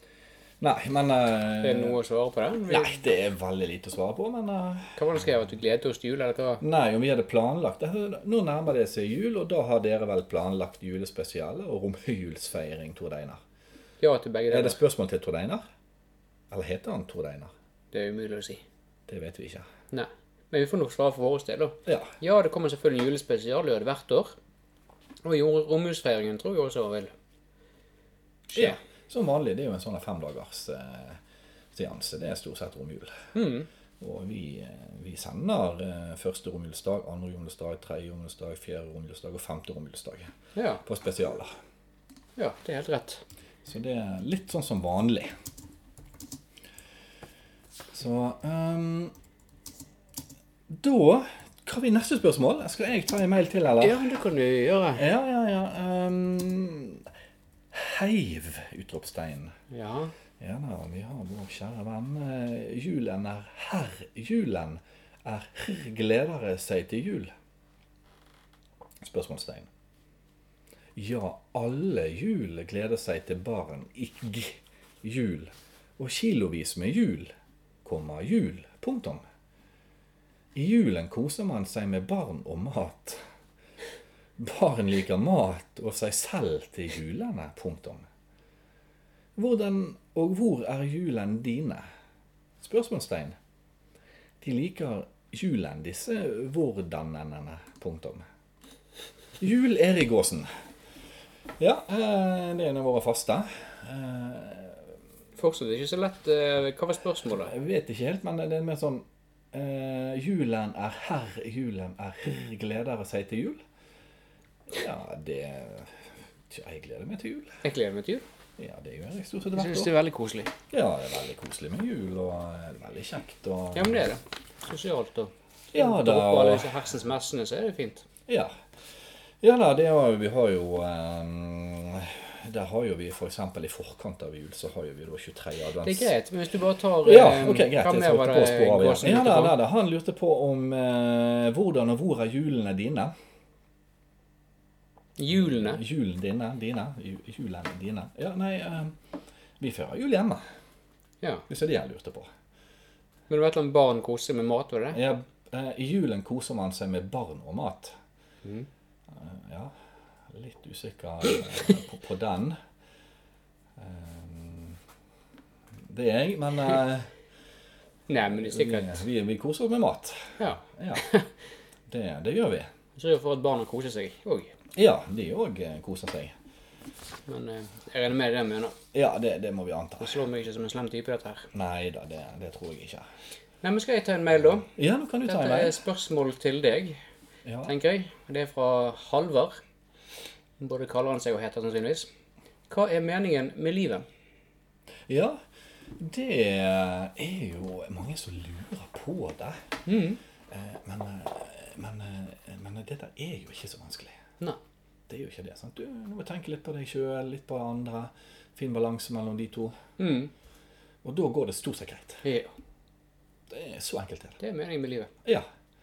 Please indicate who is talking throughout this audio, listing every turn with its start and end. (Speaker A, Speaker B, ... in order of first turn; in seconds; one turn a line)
Speaker A: 0.6-2.0
Speaker B: 1.6-3.1
Speaker A: 2.7-5.0
Speaker B: 5.0-6.6
Speaker A: 6.6-13.4
Speaker B: 14.0-14.8
Speaker A: 14.5-15.6
Speaker A: 16.5-17.5
Speaker B: 17.9-18.6
Speaker A: 19.1-19.7
Speaker B: 19.9-24.3
Speaker A: 21.9-22.1
Speaker B: 25.2-27.1
Speaker B: 28.5-28.8
Speaker A: 28.5-31.2
Speaker A: 31.7-33.3
Speaker B: 33.3-33.7
Speaker A: 34.0-40.3
Speaker B: 40.5-40.8
Speaker A: 40.8-41.5
Speaker B: 42.4-43.2
Speaker A: 43.6-45.3
Speaker A: 47.9-49.1
Speaker A: 50.7-54.0
Speaker B: 53.8-55.0
Speaker A: 54.9-57.1
Speaker A: 57.7-59.5
Speaker B: 59.7-60.1
Speaker A: 60.4-67.3
Speaker A: 69.0-69.7
Speaker A: 71.0-77.3
Speaker A: 77.8-79.2
Speaker A: 80.5-83.2
Speaker A: 84.4-88.0
Speaker A: 89.3-91.8
Speaker A: 92.6-93.3
Speaker A: 94.4-98.2
Speaker A: 99.4-100.5
Speaker A: 101.6-104.9
Speaker B: 105.4-107.5
Speaker A: 107.3-113.6
Speaker A: 114.7-117.6
Speaker B: 117.6-118.2
Speaker A: 118.6-119.9
Speaker B: 119.5-120.5
Speaker A: 120.7-124.0
Speaker B: 123.7-128.1
Speaker A: 125.7-126.7
Speaker A: 128.3-128.5
Speaker A: 129.4-136.1
Speaker B: 135.8-139.6
Speaker A: 137.0-143.1
Speaker B: 145.2-145.8
Speaker A: 145.3-149.0
Speaker A: 149.6-150.4
Speaker A: 151.5-152.3
Speaker B: 153.3-155.0
Speaker A: 154.9-157.9
Speaker A: 159.1-159.7
Speaker A: 160.3-162.6
Speaker A: 163.8-164.8
Speaker A: 165.9-167.1
Speaker B: 168.1-169.0
Speaker A: 168.3-171.1
Speaker B: 170.4-171.3
Speaker A: 171.9-172.7
Speaker B: 173.0-174.5
Speaker A: 174.7-176.3
Speaker B: 177.3-178.8
Speaker A: 178.9-180.2
Speaker B: 180.0-181.5
Speaker A: 181.5-183.0
Speaker B: 183.6-184.7
Speaker A: 184.7-185.8
Speaker B: 185.2-187.0
Speaker A: 187.4-187.7
Speaker B: 187.7-189.6
Speaker B: 190.6-192.1
Speaker B: 192.7-194.0
Speaker A: 195.1-195.4
Speaker A: 196.0-199.6
Speaker B: 199.8-200.2
Speaker A: 200.5-204.2
Speaker A: 205.1-209.8
Speaker B: 210.0-210.3
Speaker A: 211.0-212.2
Speaker B: 212.2-212.5
Speaker A: 213.5-214.4
Speaker B: 214.4-215.1